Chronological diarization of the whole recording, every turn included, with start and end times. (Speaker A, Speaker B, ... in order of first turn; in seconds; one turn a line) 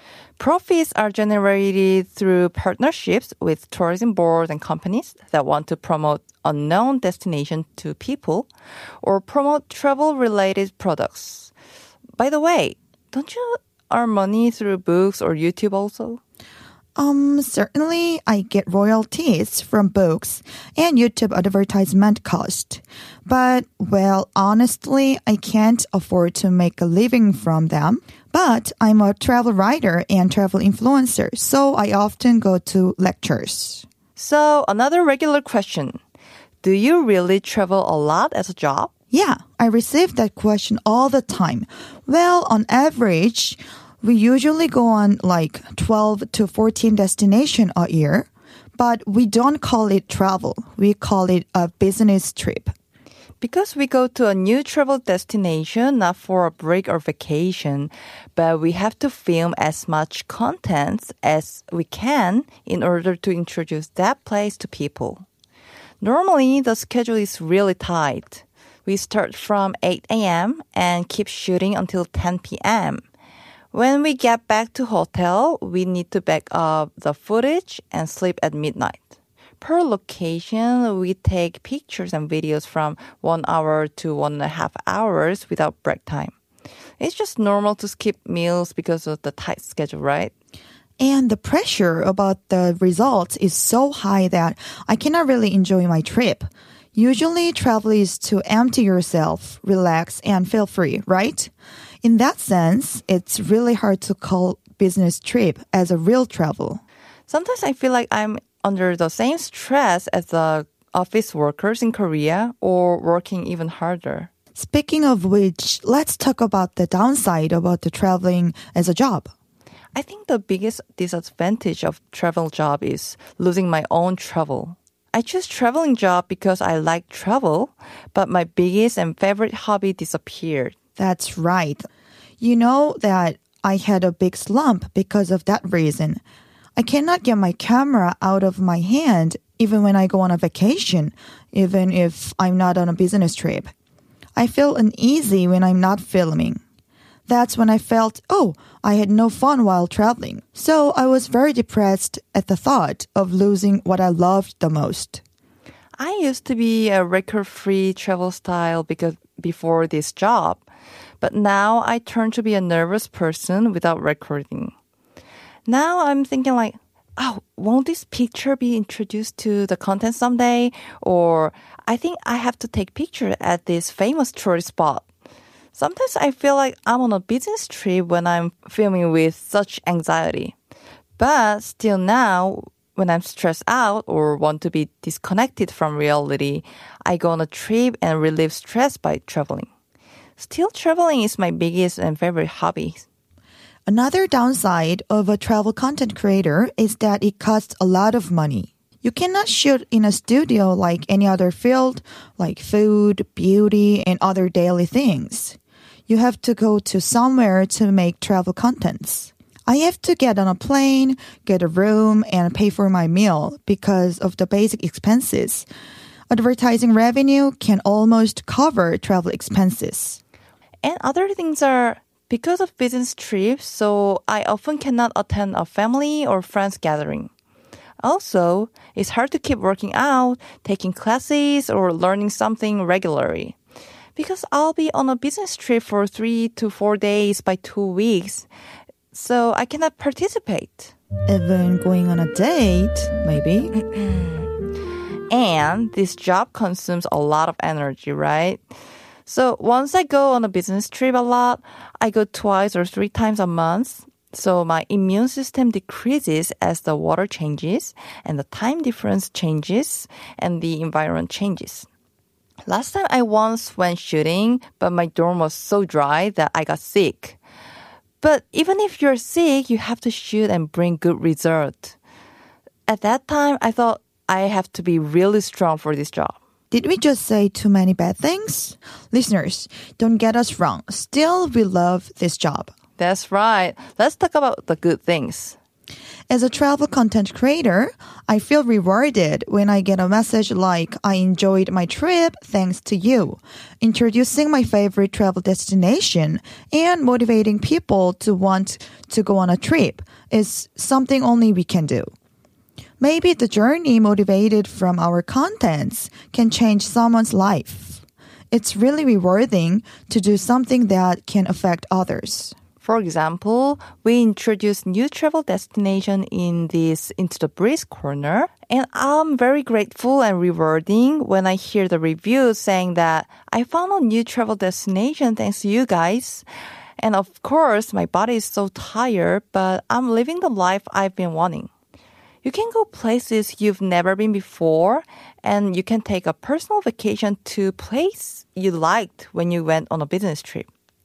Speaker A: 0.4-8.5
Speaker A: 9.0-11.5
Speaker A: 12.2-16.2
Speaker B: 16.9-33.8
Speaker A: 34.1-36.0
Speaker A: 36.6-38.9
Speaker B: 39.1-52.7
Speaker A: 53.4-65.3
Speaker A: 66.0-73.0
Speaker A: 73.7-79.0
Speaker A: 79.6-86.3
Speaker A: 87.0-90.3
Speaker B: 91.0-101.5
Speaker B: 102.0-106.8
Speaker A: 107.3-114.3
Speaker B: 114.5-119.3
Speaker A: 119.9-130.8
Speaker B: 131.0-131.8
Speaker B: 132.4-136.2
Speaker B: 136.8-143.7
Speaker B: 144.3-146.6
Speaker B: 147.3-155.2
Speaker A: 156.0-160.7
Speaker A: 161.2-164.7
Speaker A: 165.7-175.1
Speaker A: 175.7-180.5
Speaker A: 181.2-189.7
Speaker A: 190.4-193.1
Speaker B: 193.9-205.6
Speaker B: 206.1-215.7
Speaker B: 216.3-220.2
Speaker A: 220.8-227.3
Speaker A: 228.0-233.6
Speaker A: 234.2-238.5
Speaker A: 239.1-240.9
Speaker B: 241.3-243.7
Speaker A: 243.7-244.5
Speaker A: 245.3-248.6
Speaker A: 249.2-261.9
Speaker A: 262.7-267.4
Speaker A: 268.2-271.9
Speaker A: 272.9-276.4
Speaker B: 276.7-282.7
Speaker A: 283.0-285.6
Speaker B: 286.3-302.1
Speaker B: 303.0-312.5
Speaker A: 312.8-326.4
Speaker A: 327.0-331.7
Speaker A: 332.4-340.7